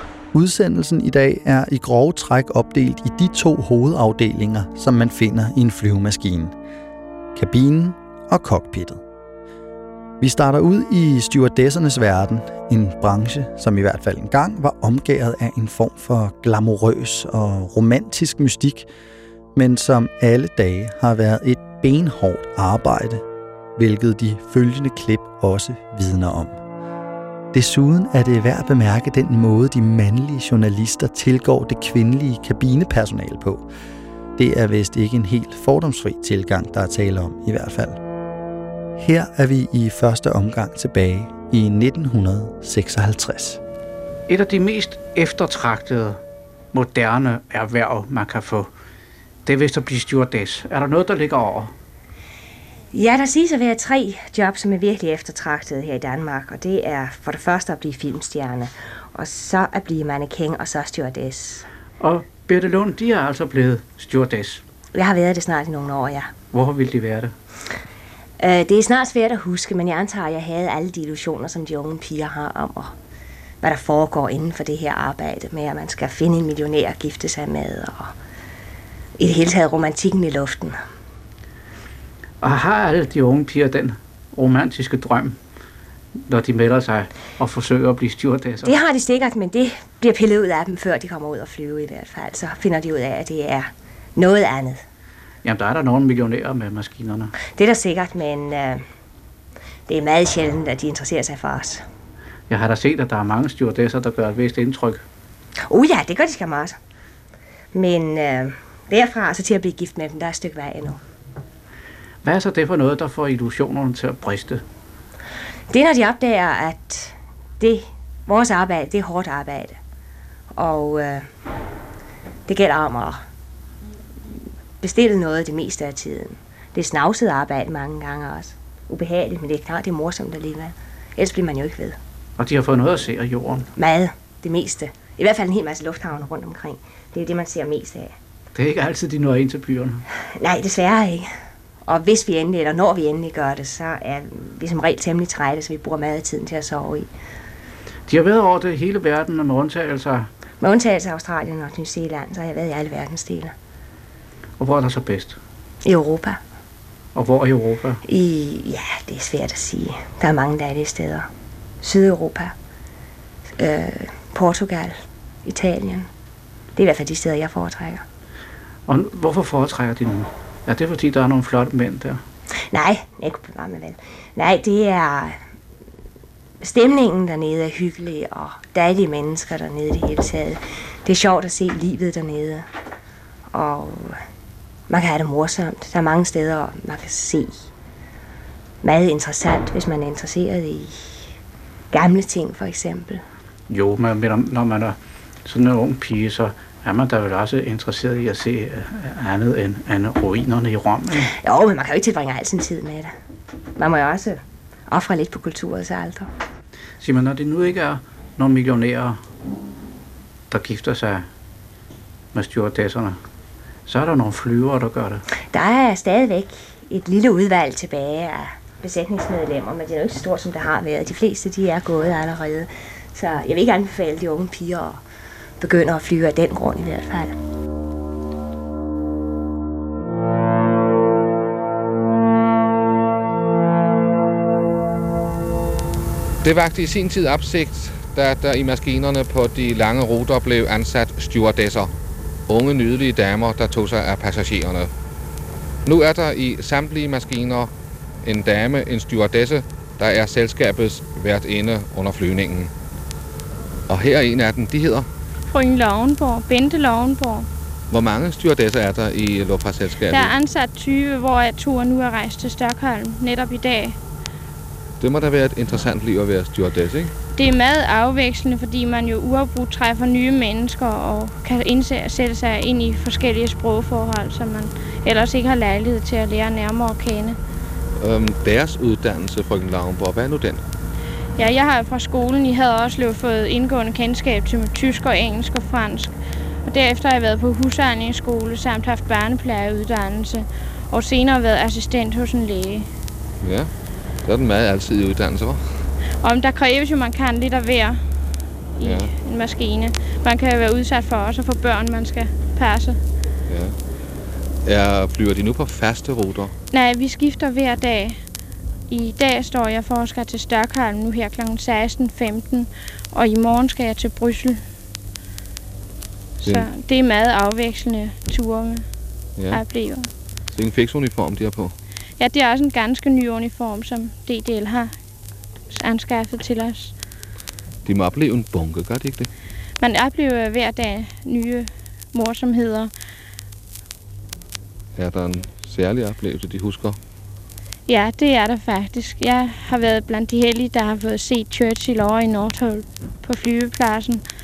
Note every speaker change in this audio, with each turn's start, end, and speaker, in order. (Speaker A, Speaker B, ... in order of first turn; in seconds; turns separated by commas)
Speaker A: 0.3-6.5, Speaker A: 7.3-9.0, Speaker A: 10.2-18.9, Speaker A: 19.6-23.2, Speaker A: 23.8-26.6, Speaker A: 27.5-33.7, Speaker A: 34.4-38.0, Speaker A: 39.0-43.6, Speaker B: 44.3-46.2, Speaker B: 46.7-48.7, Speaker B: 49.5-51.7, Speaker C: 52.9-61.6, Speaker B: 62.0-64.6, Speaker C: 64.9-66.3, Speaker B: 66.5-67.3, Speaker C: 68.4-73.0, Speaker C: 73.6-78.2, Speaker C: 79.2-80.8, Speaker B: 82.4-85.4, Speaker B: 86.2-88.8, Speaker C: 88.6-94.8, Speaker B: 95.4-97.3, Speaker C: 97.6-98.8, Speaker C: 99.9-101.9, Speaker B: 102.5-105.0, Speaker C: 105.7-106.8, Speaker C: 107.7-111.0, Speaker B: 112.2-114.6, Speaker C: 115.7-119.8, Speaker C: 120.5-121.3, Speaker C: 122.5-123.2, Speaker C: 124.8-132.0, Speaker B: 132.4-133.7, Speaker C: 133.8-138.2, Speaker B: 138.6-140.1, Speaker C: 140.4-141.3, Speaker C: 141.8-147.1, Speaker B: 148.1-150.3, Speaker C: 150.6-153.5, Speaker B: 154.6-155.4, Speaker C: 155.8-156.4, Speaker B: 157.2-158.0, Speaker C: 158.1-161.3, Speaker C: 161.8-162.6, Speaker C: 163.6-166.1, Speaker C: 166.8-168.0, Speaker B: 168.9-172.2, Speaker C: 172.7-175.4, Speaker C: 176.6-182.7, Speaker C: 183.5-184.2, Speaker C: 184.9-187.7, Speaker C: 188.8-191.3, Speaker C: 191.9-193.2, Speaker B: 193.7-201.3, Speaker C: 201.2-203.1, Speaker C: 203.8-206.3, Speaker B: 207.0-209.2, Speaker B: 210.5-211.3, Speaker B: 212.3-213.2, Speaker B: 213.9-215.2, Speaker C: 215.5-225.0, Speaker C: 225.6-227.3, Speaker D: 236.4-241.9, Speaker D: 242.5-244.9, Speaker D: 245.8-247.7, Speaker D: 248.2-252.7, Speaker D: 253.9-255.1, Speaker E: 255.5-257.5, Speaker D: 257.9-260.3, Speaker E: 260.1-264.0, Speaker D: 265.0-267.1, Speaker E: 267.3-277.4, Speaker D: 278.0-280.6, Speaker E: 281.4-292.9, Speaker D: 293.4-293.7, Speaker D: 294.2-295.9, Speaker E: 296.2-298.0, Speaker E: 298.8-303.0, Speaker D: 298.8-299.1, Speaker D: 303.5-303.8, Speaker D: 304.6-306.5, Speaker E: 306.7-308.2, Speaker E: 308.9-314.6, Speaker E: 316.4-318.9, Speaker D: 319.4-319.6, Speaker E: 319.5-320.1, Speaker D: 320.5-321.8, Speaker E: 322.2-325.0, Speaker E: 325.7-327.0, Speaker D: 327.9-329.3, Speaker E: 329.8-332.9, Speaker D: 335.0-337.0, Speaker E: 337.9-344.2